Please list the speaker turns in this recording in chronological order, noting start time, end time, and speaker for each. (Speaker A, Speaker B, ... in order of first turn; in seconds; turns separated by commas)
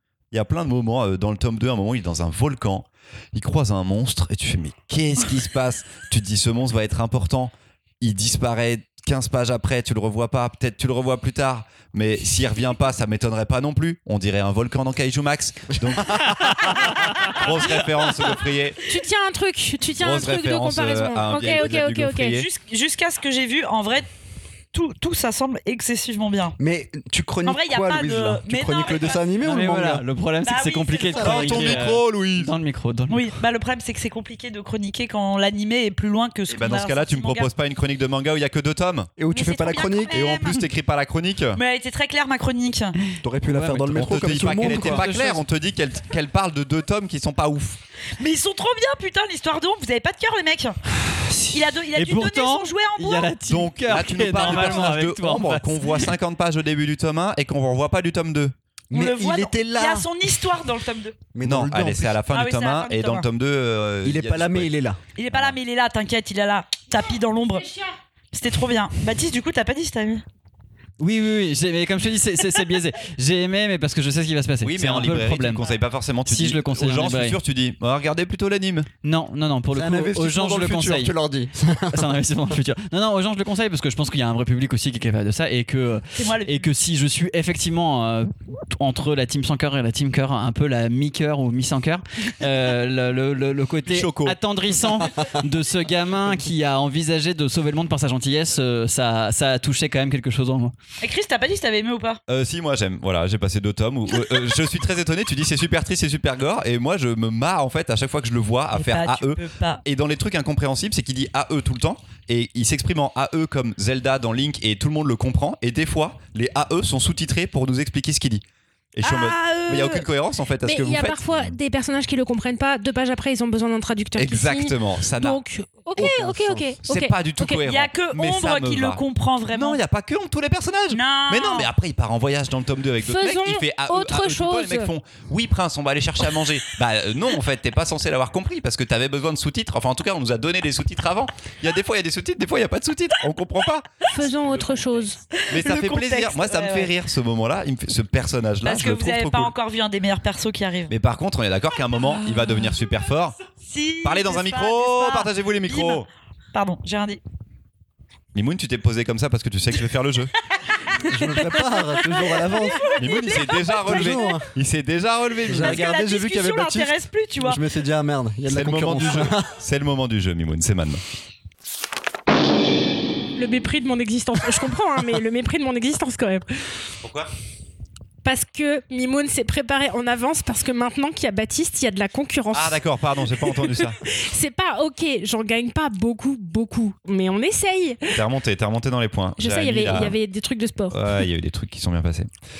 Speaker A: 0.3-18.8, Speaker B: 15.8-17.0, Speaker C: 18.9-22.4, Speaker A: 20.0-22.5, Speaker D: 22.2-24.1, Speaker D: 24.7-26.6, Speaker B: 26.6-30.1, Speaker D: 27.4-29.3, Speaker E: 29.4-33.3, Speaker D: 30.4-31.8, Speaker B: 31.1-31.8, Speaker A: 31.2-32.5, Speaker D: 33.1-37.5, Speaker A: 36.5-39.1, Speaker B: 39.2-40.2, Speaker D: 39.3-40.7, Speaker A: 40.1-41.6, Speaker D: 41.5-43.0, Speaker B: 43.2-45.1, Speaker E: 43.5-45.4, Speaker A: 43.9-47.8, Speaker D: 48.2-50.8, Speaker E: 51.3-56.1, Speaker D: 51.5-53.4, Speaker A: 53.5-58.5, Speaker B: 58.9-60.1, Speaker D: 58.9-61.2, Speaker B: 61.3-62.2, Speaker A: 61.4-64.7, Speaker D: 62.3-63.3, Speaker B: 64.0-65.0, Speaker D: 65.2-67.7, Speaker A: 65.3-65.6, Speaker C: 67.6-67.9, Speaker D: 68.3-70.2, Speaker E: 71.0-75.6, Speaker A: 74.6-78.9, Speaker E: 76.3-77.4, Speaker E: 79.0-81.1, Speaker B: 79.7-82.2, Speaker E: 81.9-100.7, Speaker D: 86.2-86.7, Speaker A: 93.9-94.4, Speaker D: 101.0-102.2, Speaker A: 102.3-121.5, Speaker D: 108.7-109.8, Speaker C: 119.0-120.1, Speaker C: 120.6-127.6, Speaker A: 124.2-125.4, Speaker A: 126.0-144.1, Speaker D: 127.7-129.8, Speaker D: 130.9-131.7, Speaker C: 133.0-134.9, Speaker C: 144.1-145.2, Speaker D: 145.3-146.9, Speaker A: 145.5-149.5, Speaker D: 148.6-150.9, Speaker A: 150.9-153.4, Speaker D: 153.5-157.2, Speaker A: 154.0-156.1, Speaker A: 158.3-160.3, Speaker B: 161.0-162.9, Speaker D: 161.4-164.4, Speaker A: 162.9-165.8, Speaker B: 163.8-164.5, Speaker B: 165.4-169.5, Speaker D: 165.5-167.6, Speaker A: 168.5-171.0, Speaker C: 173.3-176.7, Speaker A: 177.0-177.3, Speaker C: 178.2-188.2, Speaker A: 182.5-184.0, Speaker A: 188.1-190.2, Speaker C: 189.4-191.2, Speaker A: 190.9-192.3